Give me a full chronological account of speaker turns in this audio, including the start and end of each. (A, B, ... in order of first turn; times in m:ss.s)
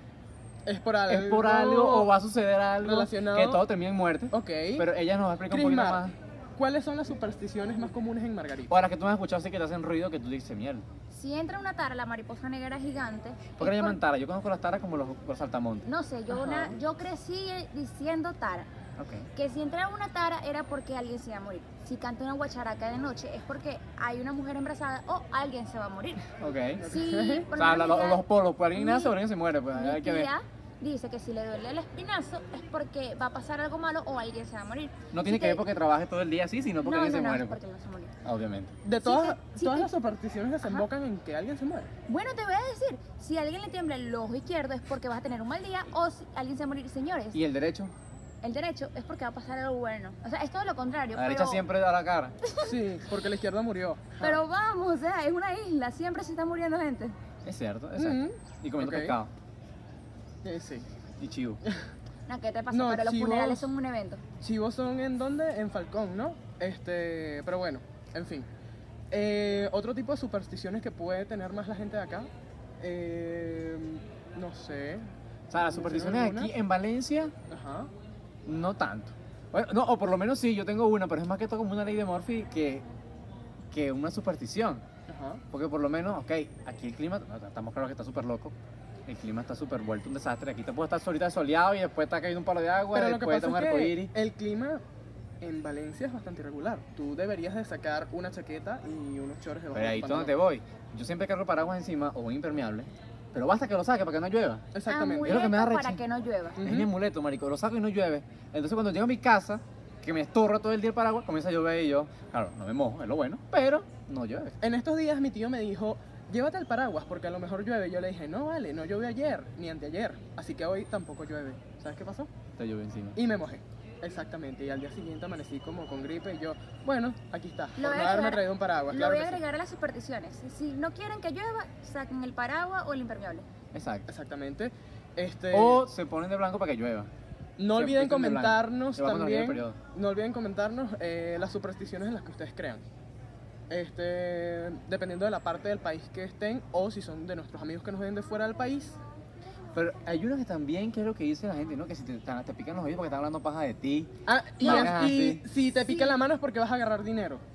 0:00.6-0:02.1 A
0:01.1-0:06.2 B
0:02.8-0:03.6 A
0:04.3-0:04.9 A
0:05.5-0:08.7 A
0:08.7-0:10.9 B
0:11.1-0:14.0 C
0:13.6-0:15.9 B
0:15.8-0:18.7 C
0:16.3-0:16.8 A
0:19.0-0:19.3 B
0:19.3-0:26.3 C
0:26.4-0:26.8 B
0:26.8-0:27.5 A
0:26.8-0:29.2 C
0:27.5-0:30.3 B
0:29.7-0:35.6 C
0:35.1-0:37.6 B
0:36.8-0:38.1 C
0:38.2-0:38.8 B
0:38.8-0:41.9 A
0:39.0-0:39.9 C
0:42.1-0:47.4 C
0:47.3-0:47.9 B
0:48.4-0:51.6 C
0:51.1-0:52.4 B
0:52.4-0:52.7 C
0:52.6-0:54.4 A
0:54.2-0:57.2 C
0:57.4-0:59.3 B
0:58.0-0:59.2 A
1:00.4-1:00.9 A
1:01.2-1:01.6 B
1:02.3-1:04.2 C
1:02.7-1:03.6 A
1:04.4-1:08.5 A
1:09.1-1:15.1 A
1:15.5-1:17.3 B
1:15.6-1:16.5 A
1:17.5-1:17.9 A
1:18.4-1:22.8 B
1:23.7-1:24.8 B
1:25.1-1:25.4 A
1:25.5-1:28.5 B
1:29.1-1:34.1 B
1:32.9-1:34.8 A
1:35.4-1:40.3 A
1:39.7-1:44.6 B
1:44.7-1:45.5 A
1:44.8-1:46.6 C
1:45.2-1:46.0 B
1:46.6-1:46.9 A
1:46.6-1:54.6 B
1:54.6-2:02.3 A
2:02.5-2:03.2 B
2:03.2-2:09.4 A
2:07.8-2:13.4 C
2:13.7-2:14.1 B
2:14.1-2:15.9 A
2:15.5-2:17.1 B
2:17.6-2:22.8 A
2:17.7-2:19.8 B
2:23.7-2:29.0 A
2:29.7-2:35.4 B
2:34.3-2:37.4 A
2:34.6-2:35.1 C
2:35.8-2:36.2 C